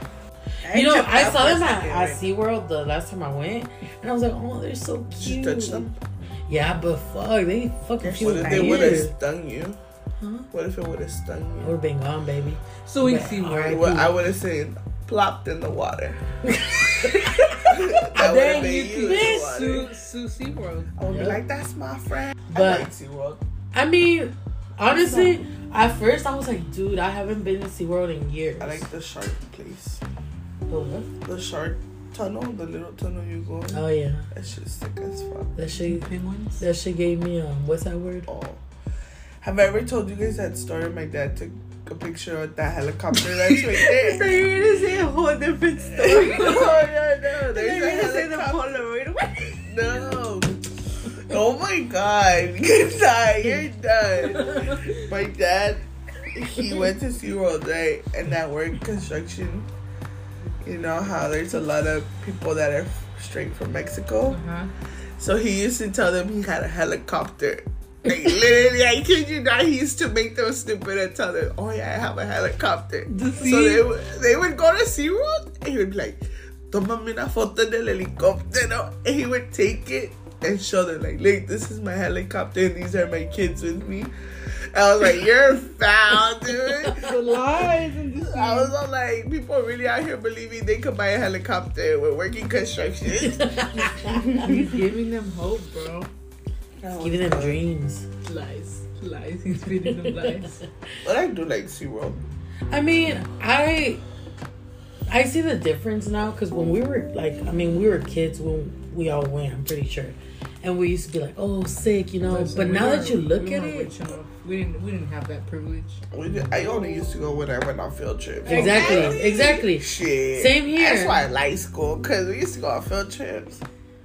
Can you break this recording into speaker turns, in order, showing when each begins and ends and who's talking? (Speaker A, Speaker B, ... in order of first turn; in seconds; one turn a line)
Speaker A: 0.6-2.2
Speaker B: 0.7-5.9
Speaker C: 5.1-5.9
Speaker B: 6.5-9.1
Speaker C: 8.0-9.8
Speaker A: 8.2-9.0
Speaker B: 10.2-10.5
Speaker C: 10.5-11.8
Speaker B: 11.6-14.2
Speaker D: 12.8-13.8
Speaker C: 13.7-16.2
Speaker B: 16.4-17.4
Speaker D: 17.2-20.9
Speaker C: 17.5-19.9
Speaker B: 19.0-19.6
Speaker C: 21.0-23.4
Speaker B: 21.1-21.4
Speaker B: 22.5-22.9
Speaker B: 23.7-28.9
Speaker C: 28.6-30.0
Speaker B: 30.7-31.1
Speaker C: 31.2-35.5
Speaker B: 33.7-34.3
Speaker B: 35.5-36.0
Speaker D: 35.7-36.6
Speaker B: 36.6-38.3
Speaker C: 38.3-38.6
Speaker C: 39.4-44.5
Speaker A: 43.7-49.5
Speaker C: 45.9-48.6
Speaker C: 49.6-50.6
Speaker C: 51.2-59.7
Speaker D: 54.4-54.8
Speaker C: 60.6-64.4
Speaker D: 64.3-64.7
Speaker C: 65.2-84.1
Speaker D: 73.1-73.8
Speaker C: 84.7-87.0
Speaker D: 86.9-88.7
Speaker C: 88.2-93.9
Speaker B: 93.3-94.2
Speaker A: 94.2-94.6
Speaker D: 94.3-96.1
Speaker C: 96.8-97.6
Speaker B: 97.0-98.0
Speaker D: 98.2-100.6
Speaker B: 99.8-100.4
Speaker C: 101.0-102.2
Speaker B: 102.7-104.0
Speaker B: 105.1-113.9
Speaker D: 112.2-116.0
Speaker C: 116.1-123.6
Speaker D: 118.5-119.3
Speaker B: 118.5-121.2